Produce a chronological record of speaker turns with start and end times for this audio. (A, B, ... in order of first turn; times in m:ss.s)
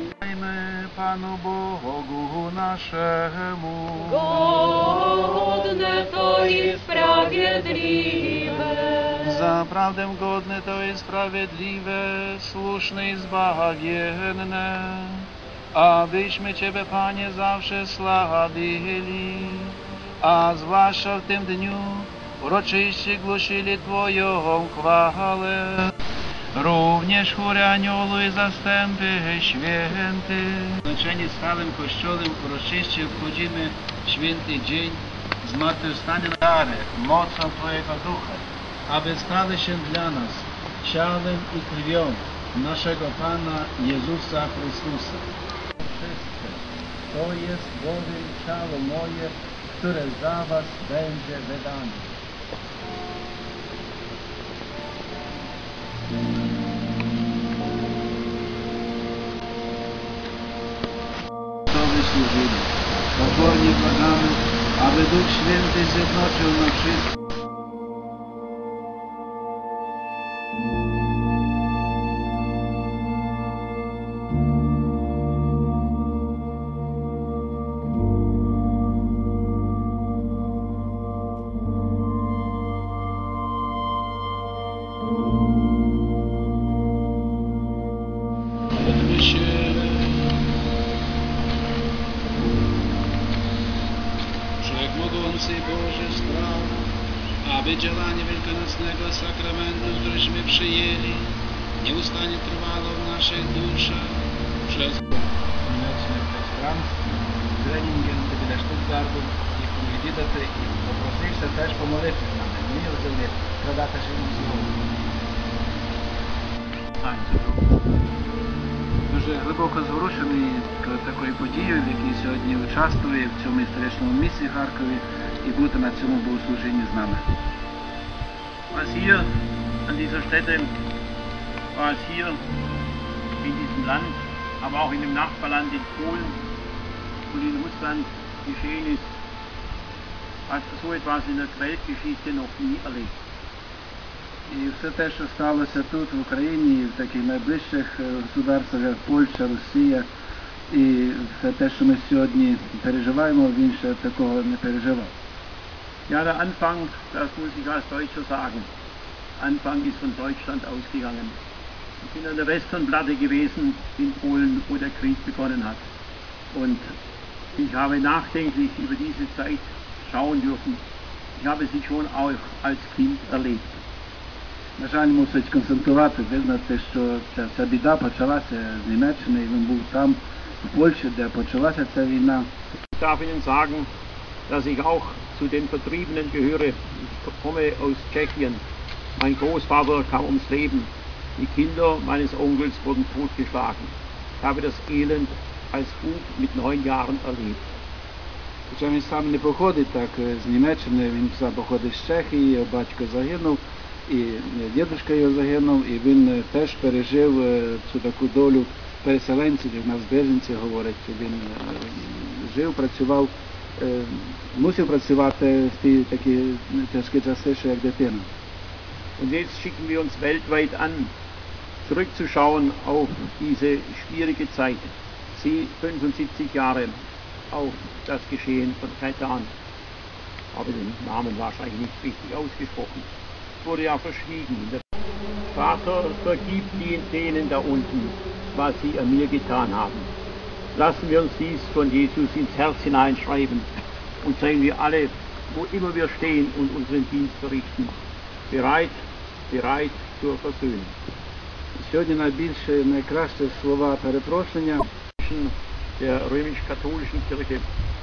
0:00.2-0:04.4 A
0:04.2-0:09.1 B
0:09.2-0:25.9 A
0:26.5-0:45.2 A
0:45.8-0:52.1 A
1:01.7-1:07.1 A
1:28.8-1:30.4 A
1:34.6-1:36.8 A
1:37.4-1:47.0 A
1:47.6-1:54.8 A
1:57.0-1:57.6 C
1:59.1-2:07.2 A
2:08.7-2:09.3 C
2:09.8-2:10.7 C
2:11.7-2:12.4 C
2:13.4-2:16.4 C
2:17.3-2:19.1 C
2:20.5-2:23.1 C
2:24.5-2:30.0 A
2:30.7-2:35.1 A
2:36.1-2:38.7 C
2:39.4-2:41.4 C
2:42.0-2:45.8 C
2:46.5-2:46.9 C
2:47.6-2:50.8 C
2:51.4-2:53.8 C
2:54.8-3:02.5 A
3:02.9-3:03.9 C
3:04.5-3:08.6 C
3:09.2-3:17.6 C
3:18.7-3:38.3 A
3:39.2-3:41.1 C
3:41.8-3:47.0 C
3:47.5-3:49.5 C
3:50.5-3:53.1 C
3:53.6-3:54.8 C
3:55.5-4:00.1 C
4:00.7-4:03.7 C
4:04.2-4:07.9 C
4:08.5-4:10.9 C
4:11.8-4:14.8 A
4:15.2-4:17.6 C